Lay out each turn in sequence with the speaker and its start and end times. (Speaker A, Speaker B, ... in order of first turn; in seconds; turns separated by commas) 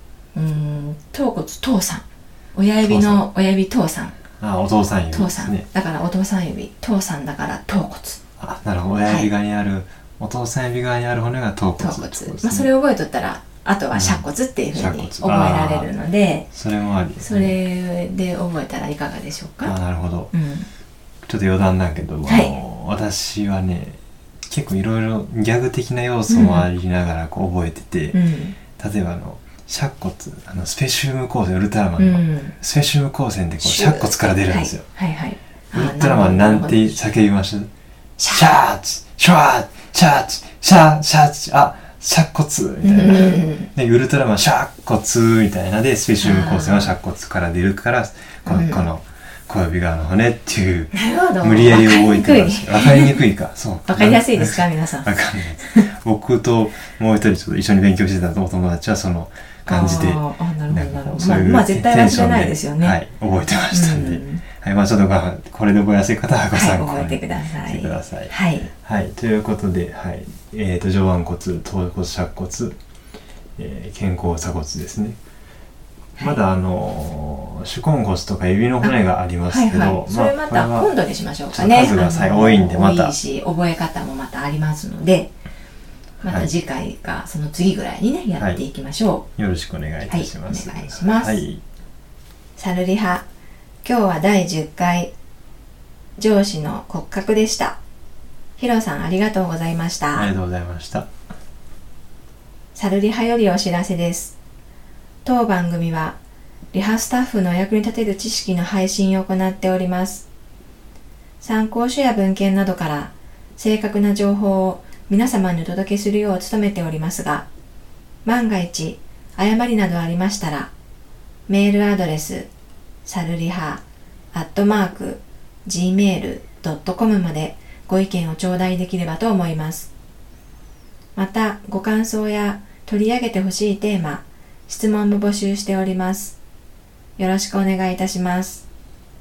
Speaker A: 0.3-4.2, Speaker B: 2.8-3.2, Speaker B: 4.4-5.7, Speaker A: 5.1-8.2, Speaker B: 8.4-12.7, Speaker A: 11.8-16.5, Speaker B: 13.9-15.9, Speaker B: 16.5-17.6, Speaker A: 17.2-19.8, Speaker B: 19.6-20.3, Speaker A: 20.3-20.7, Speaker B: 21.2-28.2, Speaker A: 22.2-22.5, Speaker A: 26.3-26.7, Speaker A: 28.1-28.6, Speaker B: 28.7-34.8, Speaker A: 32.0-32.5, Speaker A: 33.6-37.0, Speaker B: 35.7-37.7, Speaker A: 38.2-38.6, Speaker B: 38.3-72.8, Speaker A: 42.8-43.7, Speaker A: 46.2-47.0, Speaker A: 48.5-48.9, Speaker A: 50.9-53.2, Speaker A: 53.9-55.9, Speaker A: 59.7-63.0, Speaker A: 63.7-64.4, Speaker A: 66.5-68.7, Speaker B: 73.6-75.2, Speaker B: 76.2-80.9, Speaker A: 78.8-85.3, Speaker B: 81.5-83.1, Speaker A: 86.2-89.2, Speaker B: 86.2-86.5, Speaker B: 88.4-88.6, Speaker B: 89.4-91.6, Speaker A: 90.1-91.4, Speaker A: 92.6-93.2, Speaker A: 93.8-95.1, Speaker A: 96.2-97.8, Speaker A: 98.6-100.3, Speaker B: 100.1-101.1, Speaker A: 102.7-104.3, Speaker A: 105.2-106.2, Speaker A: 106.7-110.2, Speaker A: 111.4-117.5, Speaker A: 118.2-120.7, Speaker A: 121.5-122.5, Speaker A: 123.0-129.9, Speaker A: 131.2-136.3, Speaker A: 137.2-138.6